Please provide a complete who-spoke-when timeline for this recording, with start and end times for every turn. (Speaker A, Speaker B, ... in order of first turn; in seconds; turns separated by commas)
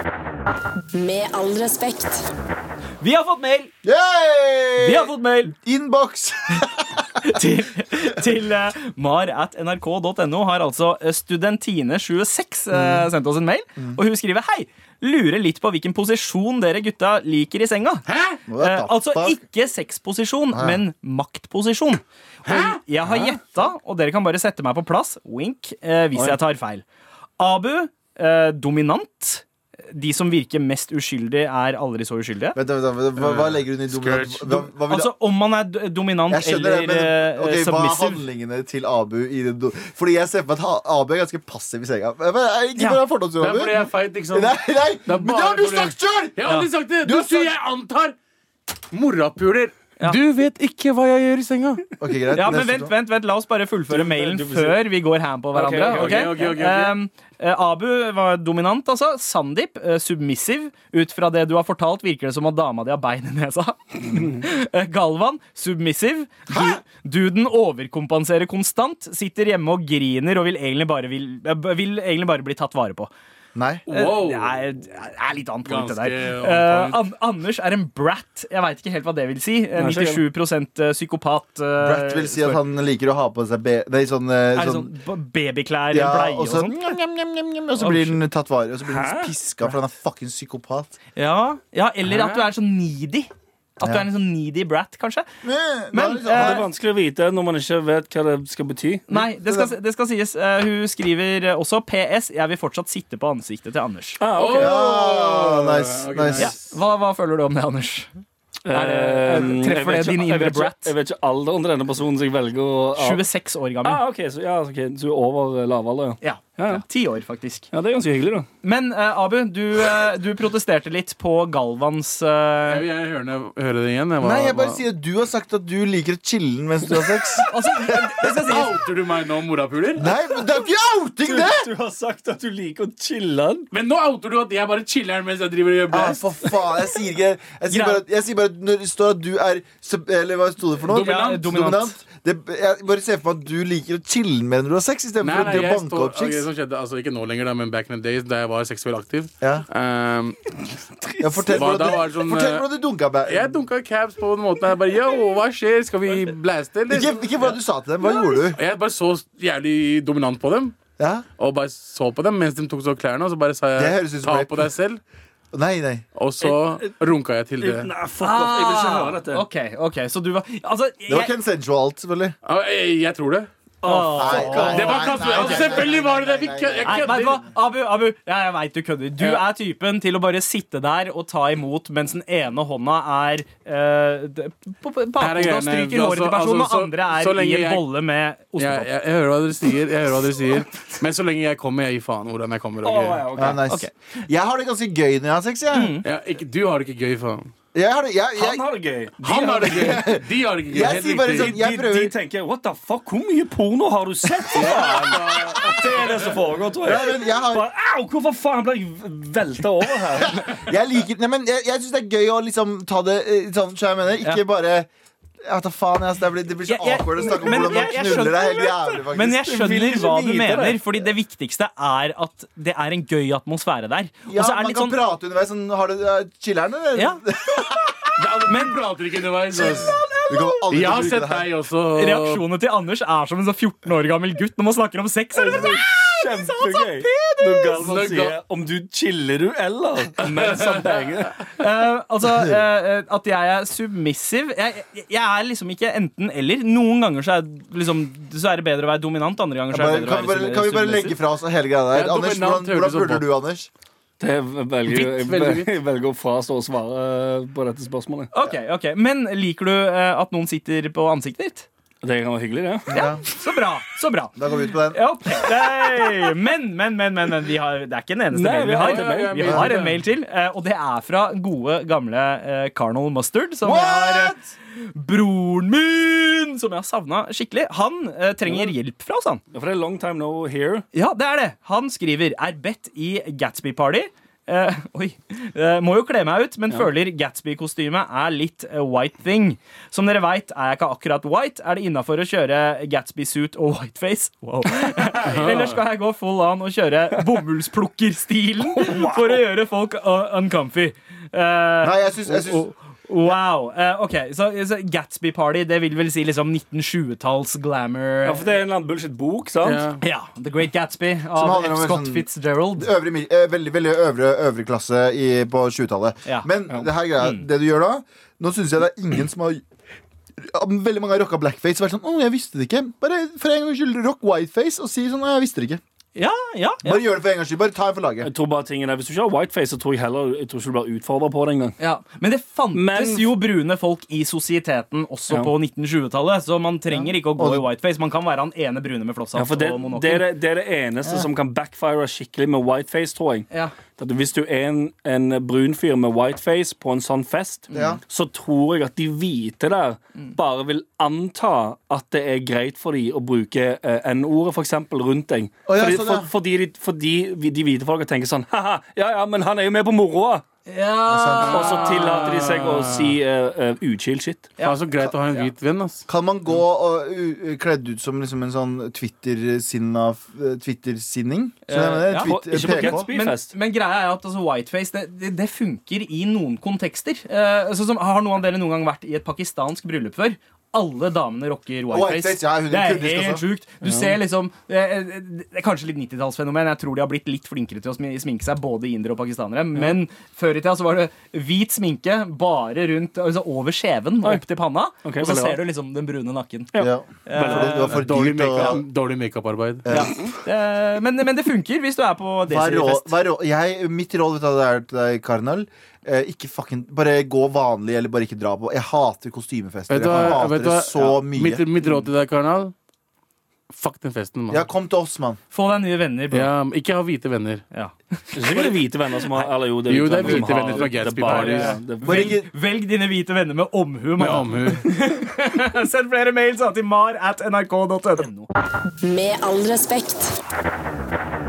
Speaker A: 0.9-2.3, Speaker B: 3.0-3.7, Speaker C: 3.8-7.0, Speaker B: 4.8-5.5, Speaker B: 7.2-18.1, Speaker C: 12.7-13.1, Speaker D: 18.1-18.4, Speaker C: 18.5-19.4, Speaker B: 18.6-26.8, Speaker C: 20.5-20.8, Speaker D: 22.4-22.8, Speaker C: 26.1-26.4, Speaker B: 27.4-32.6, Speaker C: 32.5-35.1, Speaker D: 33.2-34.6, Speaker B: 34.9-38.2, Speaker C: 36.3-46.4, Speaker B: 42.8-43.0, Speaker D: 43.4-44.5, Speaker D: 45.1-48.1, Speaker B: 46.5-46.7, Speaker C: 47.0-47.6, Speaker D: 48.9-51.9, Speaker C: 52.0-52.9, Speaker B: 52.3-73.1, Speaker E: 53.9-54.8, Speaker E: 55.5-56.5, Speaker D: 55.9-57.0, Speaker C: 66.5-66.8, Speaker C: 73.5-73.8, Speaker D: 73.9-74.5, Speaker B: 73.9-82.6, Speaker D: 75.7-77.0, Speaker E: 79.8-80.2, Speaker C: 81.8-84.9, Speaker B: 84.5-86.9, Speaker C: 85.9-90.9, Speaker B: 87.8-88.2, Speaker E: 88.8-89.3, Speaker B: 91.2-95.3, Speaker C: 93.8-94.1, Speaker C: 95.4-96.7, Speaker B: 95.9-96.7, Speaker E: 96.3-99.1, Speaker B: 99.1-104.2, Speaker C: 99.1-99.7, Speaker E: 104.2-105.4, Speaker D: 104.4-106.6, Speaker C: 104.5-106.5, Speaker B: 106.4-108.1, Speaker E: 108.7-113.2, Speaker B: 108.7-110.9, Speaker B: 113.0-114.0, Speaker E: 113.8-116.8, Speaker B: 116.2-117.7, Speaker E: 117.7-118.5, Speaker B: 118.6-122.9, Speaker D: 122.7-124.8, Speaker C: 124.2-128.6, Speaker B: 127.5-128.8, Speaker D: 128.4-130.0, Speaker C: 130.0-131.7, Speaker E: 131.2-133.7, Speaker D: 133.7-136.2, Speaker C: 135.9-146.5, Speaker B: 137.7-138.0, Speaker D: 140.9-141.4, Speaker B: 140.9-141.9, Speaker D: 145.2-150.8, Speaker E: 151.0-151.7, Speaker C: 151.2-153.6, Speaker D: 151.5-152.7, Speaker D: 153.2-157.6, Speaker C: 156.9-158.6, Speaker D: 158.2-160.8, Speaker C: 161.0-161.2, Speaker D: 161.4-165.0, Speaker C: 163.8-164.7, Speaker C: 165.5-166.0, Speaker D: 166.2-167.9, Speaker E: 166.4-166.9, Speaker E: 167.6-169.4, Speaker B: 168.2-171.3, Speaker C: 171.1-172.3, Speaker D: 172.4-173.5, Speaker E: 173.8-175.6, Speaker B: 173.8-175.8, Speaker C: 174.2-177.5, Speaker D: 174.7-177.4, Speaker B: 176.8-188.9, Speaker D: 179.2-179.4, Speaker D: 185.2-187.8, Speaker D: 188.6-193.3, Speaker E: 192.8-193.6, Speaker C: 193.3-195.9, Speaker B: 195.7-196.1, Speaker D: 196.0-197.5, Speaker C: 197.7-198.7, Speaker E: 198.4-200.0, Speaker D: 199.2-201.6, Speaker C: 199.3-202.2, Speaker E: 201.3-210.4, Speaker D: 204.5-206.4, Speaker C: 206.8-207.7, Speaker C: 210.2-214.9, Speaker C: 215.4-219.4, Speaker B: 216.7-225.0, Speaker E: 219.2-221.0, Speaker C: 224.3-227.9, Speaker B: 226.9-227.2, Speaker B: 228.1-228.8, Speaker D: 228.2-230.0, Speaker B: 229.5-230.7, Speaker C: 230.3-231.5, Speaker D: 230.7-232.4, Speaker B: 231.9-237.9, Speaker E: 235.3-241.3, Speaker D: 237.8-238.4, Speaker D: 240.3-240.9, Speaker B: 241.6-251.2, Speaker C: 249.7-253.7, Speaker D: 251.9-253.2, Speaker E: 254.2-258.3, Speaker D: 254.9-255.7, Speaker B: 258.3-261.7, Speaker E: 262.0-262.9, Speaker C: 262.9-263.2, Speaker B: 262.9-264.4, Speaker C: 264.4-265.0, Speaker B: 264.9-279.4, Speaker E: 268.3-269.6, Speaker D: 268.8-270.0, Speaker C: 273.6-274.5, Speaker E: 278.5-278.7, Speaker E: 279.5-280.9, Speaker B: 280.9-308.5, Speaker D: 295.0-295.8, Speaker E: 298.7-299.4, Speaker C: 301.8-302.7, Speaker E: 308.2-309.9, Speaker D: 309.6-310.0, Speaker B: 310.0-312.9, Speaker C: 311.4-319.6, Speaker C: 320.4-325.8, Speaker B: 326.1-327.0, Speaker C: 326.8-328.3, Speaker E: 328.2-331.8, Speaker B: 331.8-340.3, Speaker E: 332.7-333.4, Speaker C: 336.9-337.7, Speaker E: 339.4-360.4, Speaker C: 341.0-341.3, Speaker B: 347.7-348.0, Speaker C: 347.7-348.0, Speaker C: 355.7-356.3, Speaker B: 360.7-362.2, Speaker C: 361.1-361.7, Speaker E: 361.4-364.6, Speaker D: 361.4-363.2, Speaker B: 364.6-365.5, Speaker D: 364.6-366.0, Speaker C: 366.1-373.1, Speaker B: 371.7-396.7, Speaker E: 372.2-373.6, Speaker C: 381.9-383.4, Speaker E: 383.8-384.2, Speaker E: 395.0-395.6, Speaker E: 396.7-397.8, Speaker C: 396.8-398.8, Speaker B: 397.2-398.0, Speaker D: 397.9-400.1, Speaker C: 399.9-400.2, Speaker B: 399.9-403.2, Speaker C: 402.5-411.7, Speaker D: 409.9-412.7, Speaker B: 411.8-412.1, Speaker D: 413.7-414.7, Speaker C: 414.5-415.4, Speaker B: 415.5-416.5, Speaker D: 416.3-417.6, Speaker B: 417.7-419.5, Speaker E: 418.3-422.4, Speaker D: 419.9-421.8, Speaker B: 420.2-428.5, Speaker C: 422.0-422.5, Speaker D: 424.2-424.8, Speaker A: 429.0-430.4